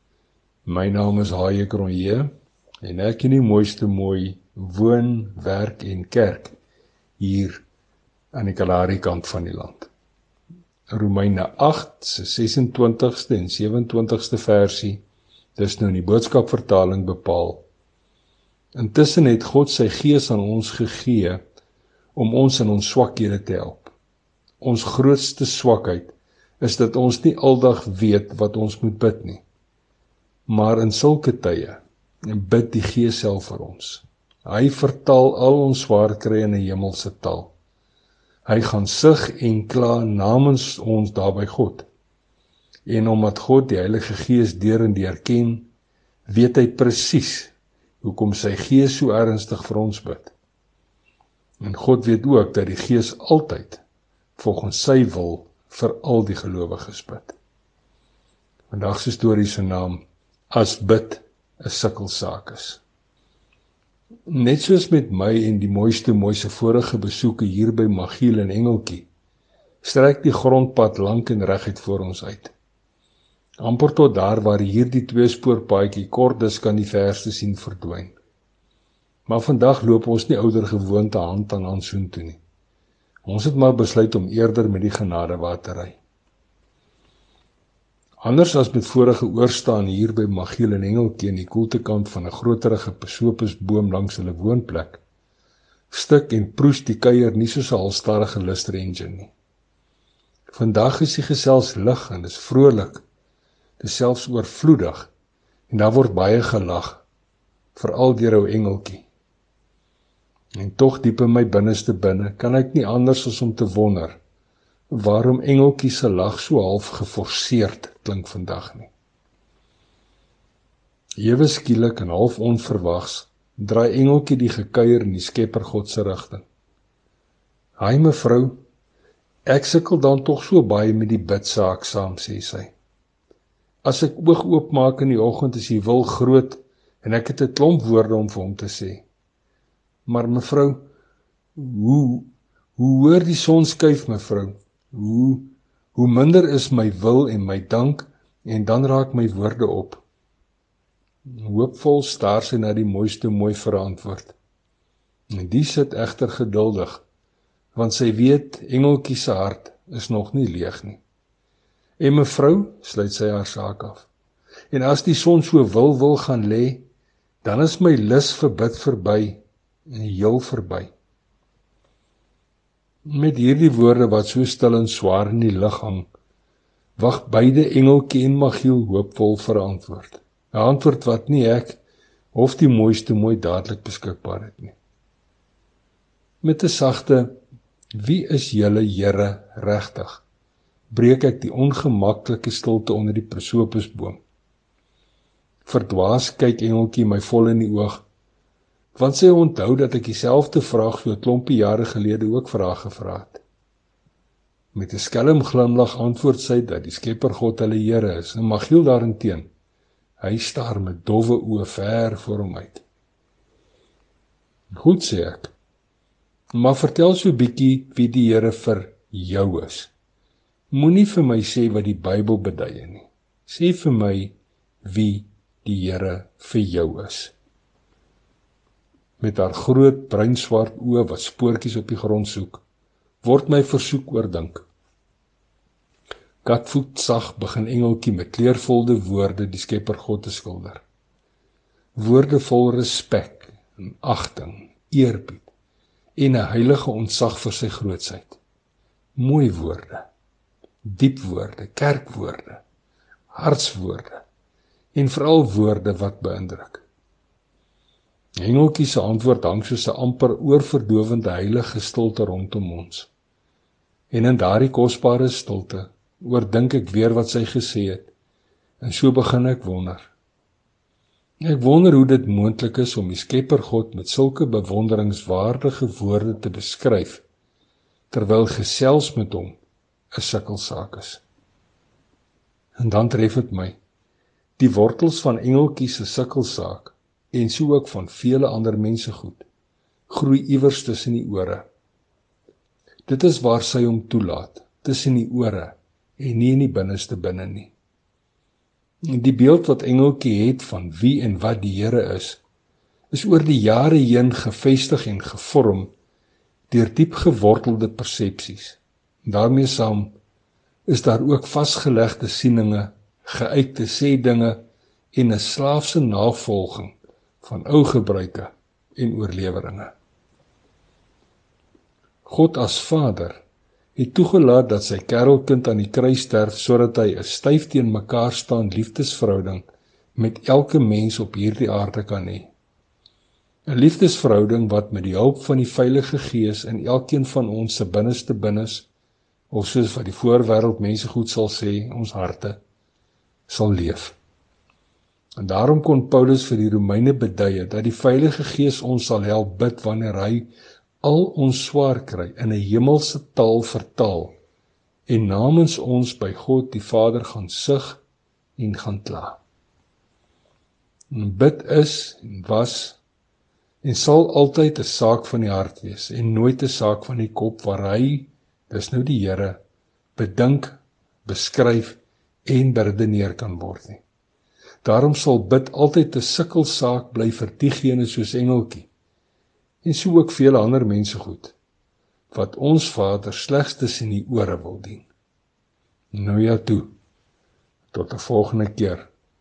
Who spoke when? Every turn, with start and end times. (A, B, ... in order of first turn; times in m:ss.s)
0:00.7-0:02.3 A
0:02.8-0:06.6 A
0:07.2-0:07.6 A
0:08.3-0:09.9 A
0:10.9-0:15.0 A
0:15.6-0:17.6 A
0:18.8-0:21.4 A
0:22.2-0:24.0 A
0:24.6-0:29.4 A
0:30.5-0:37.5 A
0:38.5-0:41.9 A
0:42.9-0:45.7 A
0:46.3-0:50.3 A
0:51.6-0:53.8 A
0:54.4-0:57.4 A
0:58.7-1:02.8 A
1:04.3-1:09.1 A
1:09.8-1:12.5 A
1:13.6-1:18.2 A
1:19.3-1:22.4 A
1:23.3-1:26.0 A
1:28.2-1:35.0 A
1:35.9-1:39.3 A
1:40.5-1:43.0 A
1:43.8-1:45.1 A
1:45.7-1:47.0 A
1:47.8-1:49.1 A
1:50.6-1:54.2 A
1:54.9-1:58.9 A
2:01.2-2:06.4 A
2:07.8-2:08.6 A
2:09.5-2:12.7 A
2:13.8-2:19.0 A
2:20.1-2:20.9 A
2:21.6-2:30.0 A
2:31.3-2:34.4 A
2:35.3-2:37.0 A
2:37.8-2:41.0 A
2:42.0-2:44.1 A
2:44.7-2:46.8 A
2:47.4-2:50.9 A
2:53.1-2:56.1 A
2:57.0-3:01.8 A
3:02.3-3:04.8 A
3:06.4-3:07.4 A
3:08.0-3:10.2 A
3:10.9-3:14.2 A
3:15.6-3:18.0 A
3:19.0-3:23.4 A
3:24.7-3:29.5 A
3:30.2-3:32.8 A
3:34.7-3:35.5 A
3:36.5-3:39.9 A
3:40.7-3:47.3 A
3:49.2-3:52.6 A
3:53.2-3:54.7 A
3:56.4-4:00.8 A
4:02.0-4:05.5 A
4:06.2-4:08.4 A
4:09.2-4:10.1 A
4:10.8-4:12.6 A
4:13.3-4:14.2 A
4:15.0-4:16.8 A
4:18.4-4:23.1 A
4:24.1-4:28.1 A
4:28.8-4:30.1 A
4:31.4-4:37.2 A
4:38.1-4:39.6 A
4:40.1-4:41.2 A
4:42.8-4:43.8 A
4:44.6-4:49.4 A
4:50.1-4:51.7 A
4:53.1-4:57.7 A
4:59.1-5:02.4 A
5:03.1-5:05.9 A
5:06.7-5:10.1 A
5:10.9-5:14.6 A
5:15.1-5:19.9 A
5:22.2-5:23.4 A
5:24.0-5:29.6 A
5:30.2-5:32.5 A
5:33.7-5:38.9 A
5:39.5-5:42.6 A
5:43.5-5:44.2 A
5:45.4-5:50.5 A
5:51.0-5:54.3 A
5:55.1-5:58.0 A
5:58.6-5:59.4 A
6:01.1-6:03.0 A
6:03.8-6:09.6 A
6:10.2-6:14.0 A
6:14.8-6:18.9 A
6:19.8-6:21.6 A
6:22.3-6:25.1 A
6:26.1-6:26.9 A
6:27.9-6:29.1 A